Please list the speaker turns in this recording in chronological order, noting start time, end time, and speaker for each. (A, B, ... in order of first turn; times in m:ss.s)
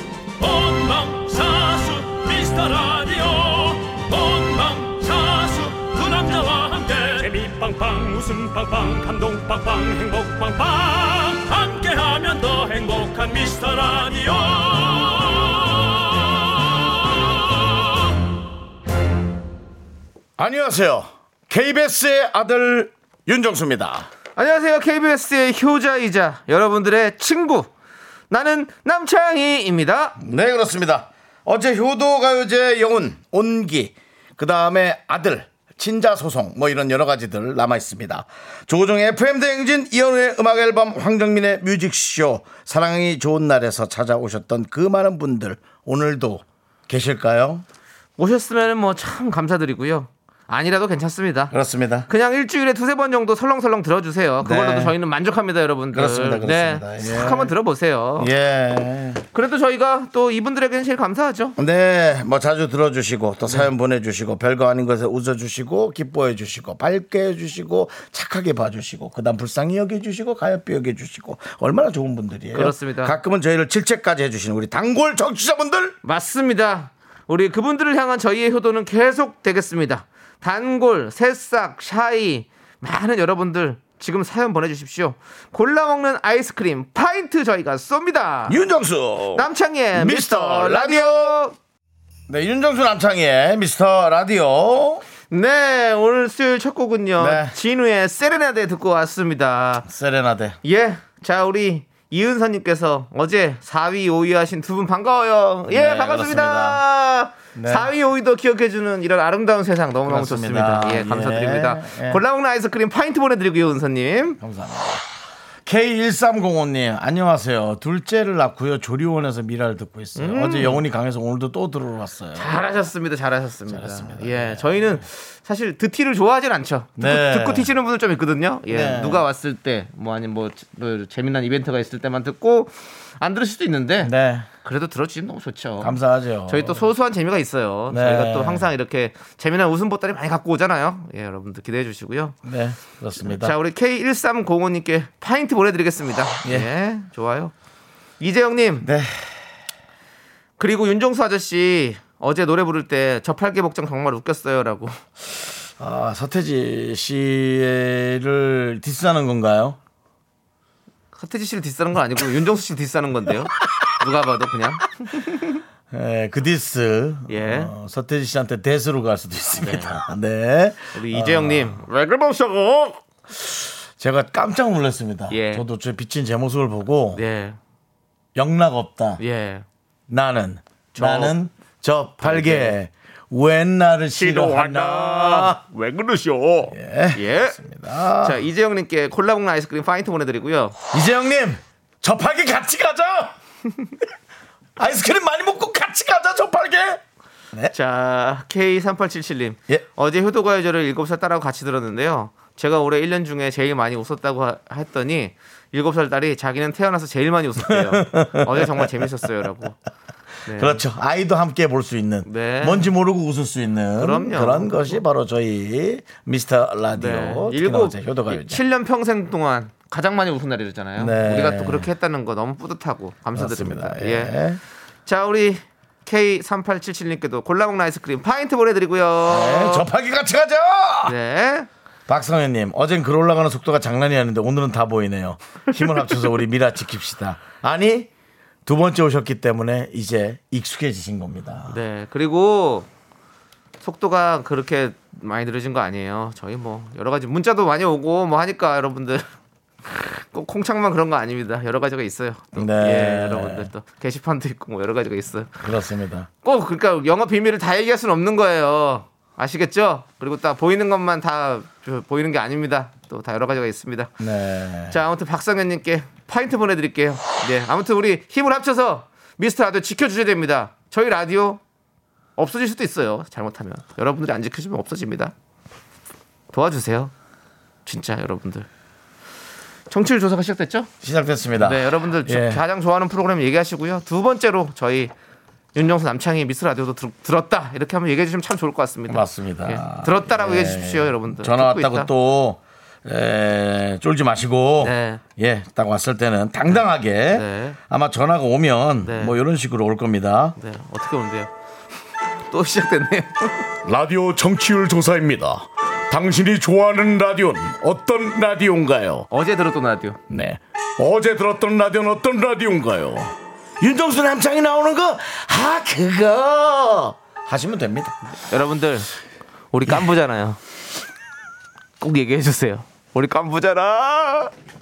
0:00.4-0:17.9 A
0:20.4-0:24.1 B
0:24.4-0:27.7 C
0:28.3-0:30.2 C
0:30.2-0:47.6 B
0:48.2-0:51.5 C
0:51.5-0:52.1 B
0:52.1-0:58.3 C
0:54.4-0:55.0 B
0:55.9-0:57.5 B
0:58.2-0:59.2 B
0:59.3-1:01.6 C
1:01.6-1:16.0 B
1:12.5-1:13.2 C
1:16.0-1:28.6 C
1:28.5-1:31.4 B
1:29.4-1:31.6 C
1:32.3-1:35.0 B
1:35.3-1:39.9 C
1:37.2-1:37.6 B
1:39.8-1:40.6 B
1:40.6-1:54.4 C
1:45.7-1:46.8 B
1:47.6-1:47.9 B
1:50.1-1:52.2 B
1:54.4-1:55.1 B
1:55.6-2:02.6 B
2:00.2-2:00.8 C
2:02.4-2:14.1 C
2:03.7-2:05.0 B
2:07.0-2:07.7 B
2:08.7-2:09.2 B
2:14.0-2:14.5 B
2:14.6-2:16.0 C
2:15.8-2:16.8 B
2:16.5-2:22.4 C
2:17.9-2:18.7 B
2:22.4-2:23.6 B
2:23.2-2:27.5 C
2:28.2-2:28.9 C
2:28.8-2:29.4 B
2:30.6-2:35.0 C
2:35.8-2:39.8 B
2:41.1-2:45.6 C
2:45.9-2:51.8 B
2:47.3-2:47.7 C
2:49.6-2:50.0 C
2:51.0-2:53.0 C
2:53.4-2:57.2 B
2:55.3-2:55.6 C
2:57.2-2:57.6 C
2:58.4-2:59.2 B
2:59.2-2:59.6 C
3:00.1-3:05.6 B
3:01.0-3:01.4 C
3:02.2-3:02.8 C
3:04.2-3:07.6 C
3:06.7-3:08.4 B
3:08.2-3:10.8 C
3:10.9-3:13.4 B
3:14.8-3:17.0 B
3:17.7-3:29.8 C
3:27.7-3:29.1 B
3:30.4-3:30.8 C
3:30.5-3:38.6 B
3:32.3-3:32.9 C
3:34.0-3:35.0 C
3:37.0-3:44.4 C
3:41.0-3:41.9 B
3:43.4-3:44.6 B
3:45.1-3:49.9 C
3:49.3-3:51.2 B
3:51.0-3:51.7 C
3:52.1-3:58.1 B
3:58.7-4:01.8 B
4:01.7-4:02.9 C
4:03.8-4:09.2 C
4:09.8-4:15.6 C
4:12.6-4:13.7 B
4:15.6-4:16.3 B
4:16.4-4:24.1 C
4:24.2-4:25.0 B
4:24.9-4:31.6 C
4:32.4-4:35.3 C
4:36.5-4:37.1 C
4:37.9-4:38.7 C
4:39.9-4:40.9 C
4:41.0-4:42.6 B
4:41.6-4:45.1 C
4:45.8-4:52.1 C
4:49.1-5:00.6 B
4:54.8-4:55.2 C
4:57.3-4:57.8 C
4:59.0-4:59.4 C
5:00.6-5:01.5 C
5:02.5-5:03.7 C
5:03.8-5:09.3 B
5:09.3-5:10.2 C
5:10.3-5:18.2 B
5:18.4-5:19.1 C
5:19.7-5:20.6 C
5:22.0-5:24.5 C